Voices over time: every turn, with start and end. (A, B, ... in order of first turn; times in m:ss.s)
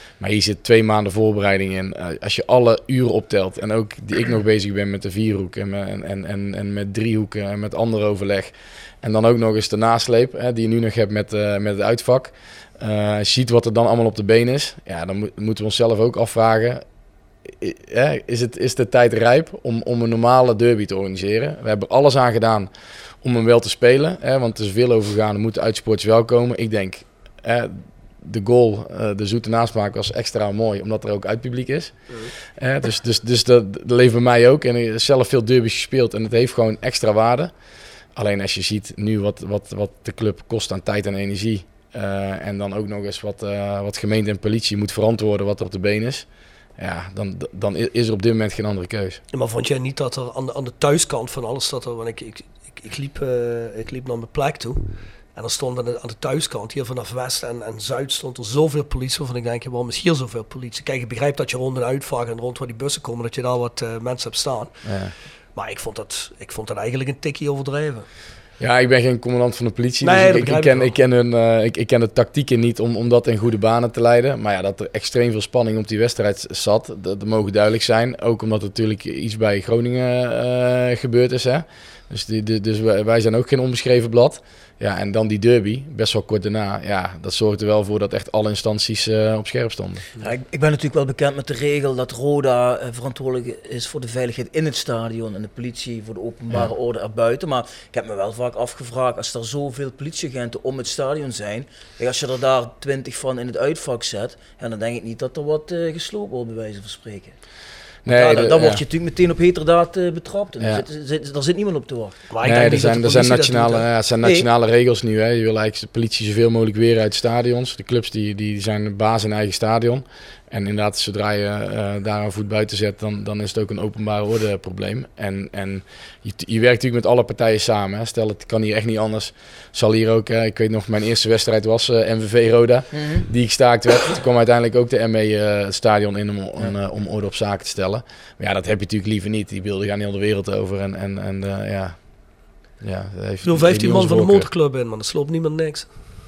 0:00.2-0:16.8 A
0:17.4-0:22.7 A
0:23.2-0:37.5 A
0:38.1-0:46.2 A
0:46.8-0:49.2 A
0:49.3-1:04.7 B
1:04.8-1:05.1 A
1:05.5-1:08.0 B
1:08.6-1:30.0 A
1:10.0-1:11.0 B
1:30.2-1:47.3 C
1:48.0-1:48.8 A
1:48.0-1:52.2 C
1:50.6-1:50.8 A
1:52.3-1:53.9 B
1:52.4-2:22.1 A
1:54.2-1:54.5 C
2:12.9-2:13.2 C
2:22.8-2:24.5 A
2:23.4-2:25.9 B